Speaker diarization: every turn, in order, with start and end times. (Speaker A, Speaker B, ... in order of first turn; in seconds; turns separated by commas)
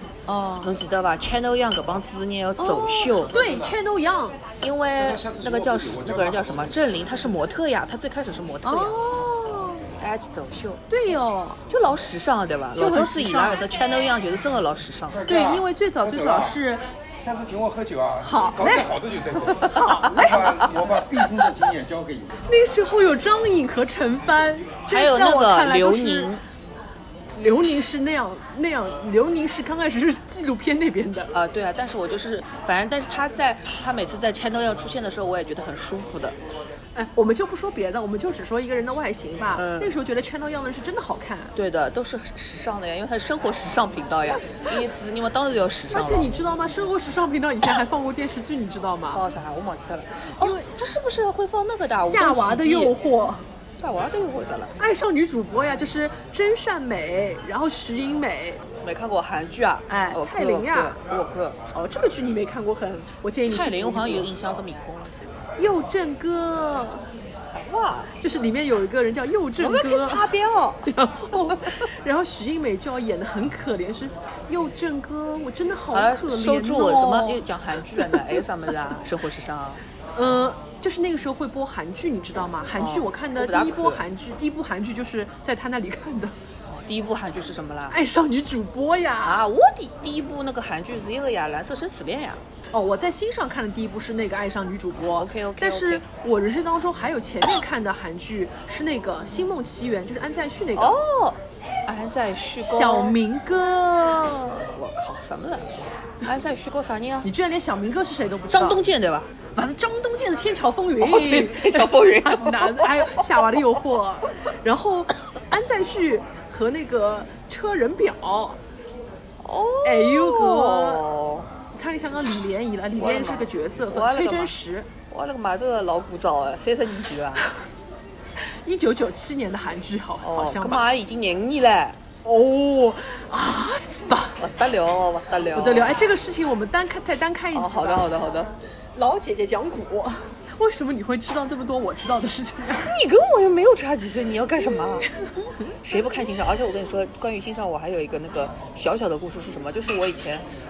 Speaker A: 0.3-0.7, Speaker B: 0.6-3.4, Speaker A: 2.6-4.4, Speaker B: 4.6-9.0, Speaker C: 5.0-6.8, Speaker A: 8.6-9.8, Speaker B: 10.0-10.8, Speaker A: 10.9-11.6, Speaker B: 11.7-15.3, Speaker A: 12.8-13.6, Speaker C: 15.1-16.6, Speaker A: 15.3-16.8, Speaker C: 17.2-22.3, Speaker A: 18.2-20.5, Speaker A: 22.5-26.3, Speaker B: 24.9-26.4, Speaker A: 27.4-31.3, Speaker B: 31.3-36.4, Speaker A: 37.0-41.5, Speaker B: 39.5-39.9, Speaker B: 41.5-46.3, Speaker A: 45.9-49.2, Speaker B: 49.1-53.0, Speaker A: 50.4-50.7, Speaker A: 52.0-53.4, Speaker B: 53.8-54.8, Speaker A: 54.8-58.6, Speaker B: 58.8-61.6, Speaker A: 59.9-61.0, Speaker A: 61.7-64.3, Speaker B: 63.4-65.2, Speaker A: 65.6-67.0, Speaker B: 67.5-68.1, Speaker A: 68.2-70.3, Speaker B: 69.6-71.7, Speaker A: 70.9-77.4, Speaker B: 75.9-79.8, Speaker A: 78.0-78.4, Speaker A: 80.2-86.3, Speaker B: 82.8-84.0, Speaker B: 86.7-88.0, Speaker A: 87.9-89.4, Speaker B: 89.2-92.4, Speaker A: 92.7-101.0, Speaker B: 95.1-96.0, Speaker B: 100.8-103.2, Speaker A: 102.6-104.6, Speaker B: 104.6-107.3, Speaker A: 107.2-108.8, Speaker B: 108.5-109.3, Speaker A: 109.5-118.6, Speaker B: 111.0-113.4, Speaker B: 119.4-121.5, Speaker A: 119.8-121.1, Speaker A: 121.7-124.9, Speaker B: 123.0-124.5, Speaker B: 125.1-127.5, Speaker A: 128.4-130.8, Speaker B: 130.2-132.0, Speaker A: 132.2-134.4, Speaker B: 134.4-136.0, Speaker A: 135.5-138.1, Speaker B: 137.5-138.5, Speaker A: 138.9-142.9, Speaker B: 142.8-145.1, Speaker B: 145.8-150.4